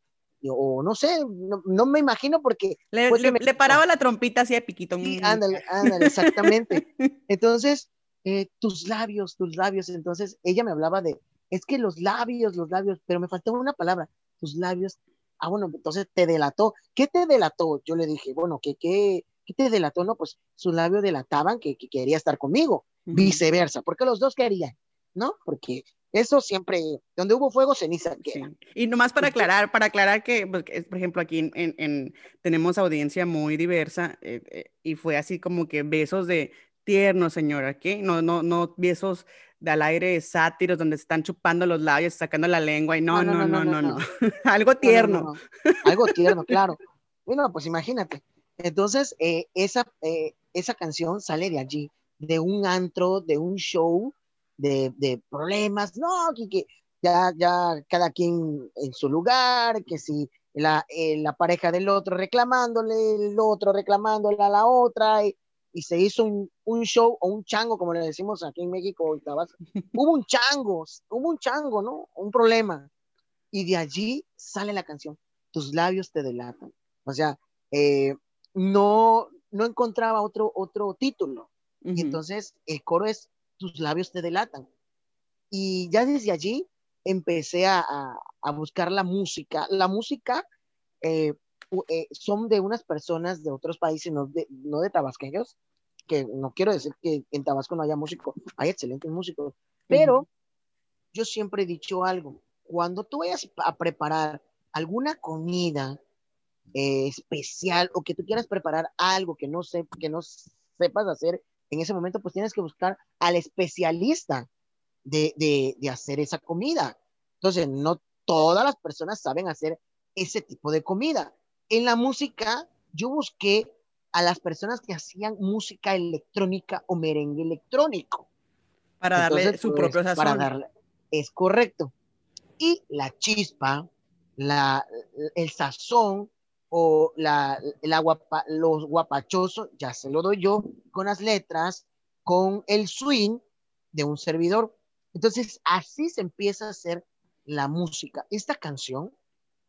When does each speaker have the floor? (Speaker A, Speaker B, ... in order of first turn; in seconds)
Speaker A: 0.4-3.8, 5.0-28.5, 29.2-29.5, 43.1-44.0, 44.8-72.9, 73.5-84.7, 85.5-90.4, 91.0-95.5, 96.1-100.2, 101.1-106.0, 106.7-114.5, 115.0-128.3, 129.1-131.9, 132.6-143.4, 143.9-149.1
Speaker B: 2.9-7.1, 23.1-23.4, 28.2-46.6, 81.8-82.2, 99.9-100.2, 129.0-130.4